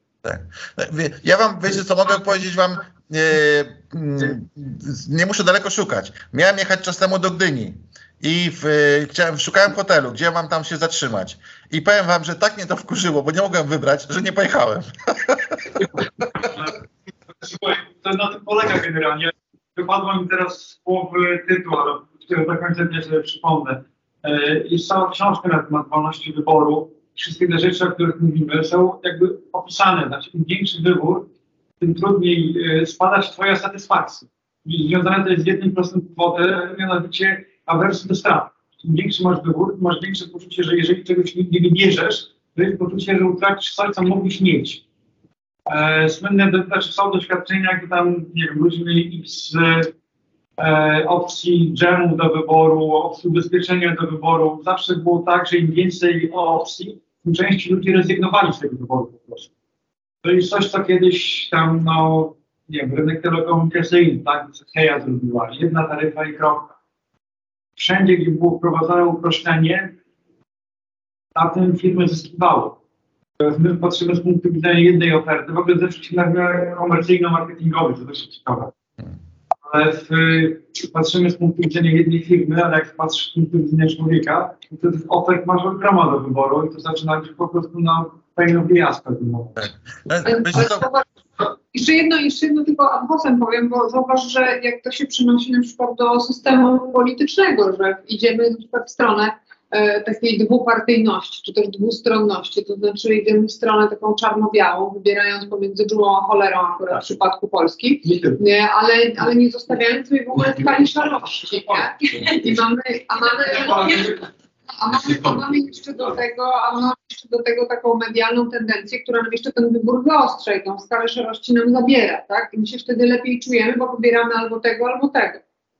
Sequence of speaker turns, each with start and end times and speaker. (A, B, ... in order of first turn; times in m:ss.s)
0:00.2-0:15.8 A
0:17.4-0:31.3 B
0:31.8-0:44.8 B
0:45.7-0:49.9 B
0:50.6-0:59.5 B
1:00.2-1:06.7 B
1:07.8-1:10.0 B
1:11.4-1:12.8 B
1:13.4-1:18.7 B
1:19.6-1:29.7 B
1:29.6-1:30.9 A
1:30.2-1:54.1 C
1:53.5-1:54.3 B
1:54.8-2:05.4 C